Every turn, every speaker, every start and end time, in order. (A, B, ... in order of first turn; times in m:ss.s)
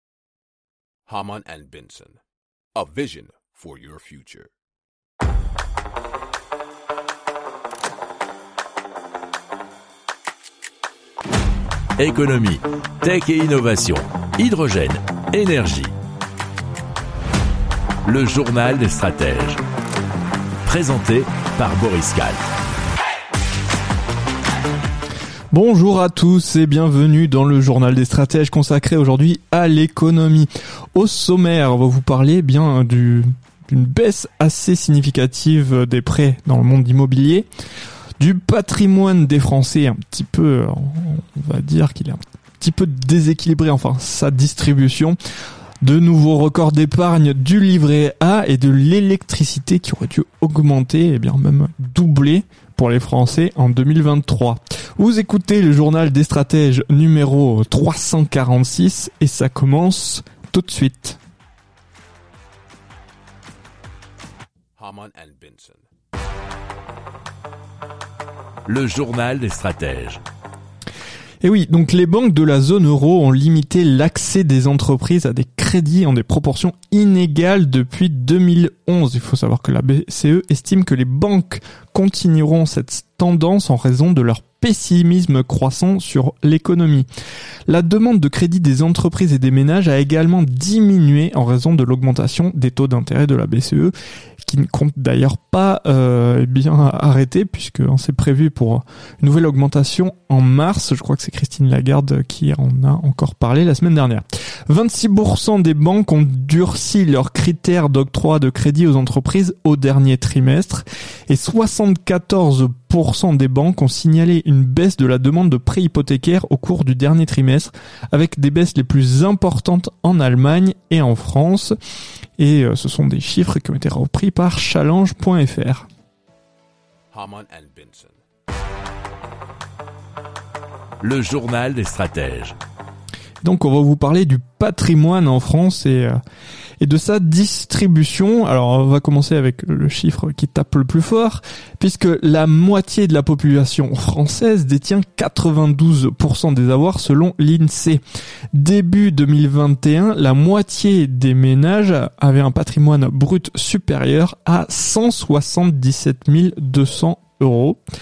0:01.1-0:02.2 A
0:02.7-0:04.5 A
0:12.0-0:15.9 B
0:18.0-0:19.6 B
0:20.6-0:22.4 B
0:25.5-0:37.5 C
0:38.2-0:45.2 C
0:45.8-1:01.2 C
1:04.8-1:05.8 A
1:08.6-1:10.2 B
1:11.4-1:27.1 C
1:27.7-1:33.9 C
1:34.4-2:01.7 C
2:02.4-2:05.9 C
2:07.1-2:08.2 A
2:11.0-2:12.6 B
2:13.4-2:16.2 C
2:16.8-2:28.0 C
2:28.5-2:37.8 C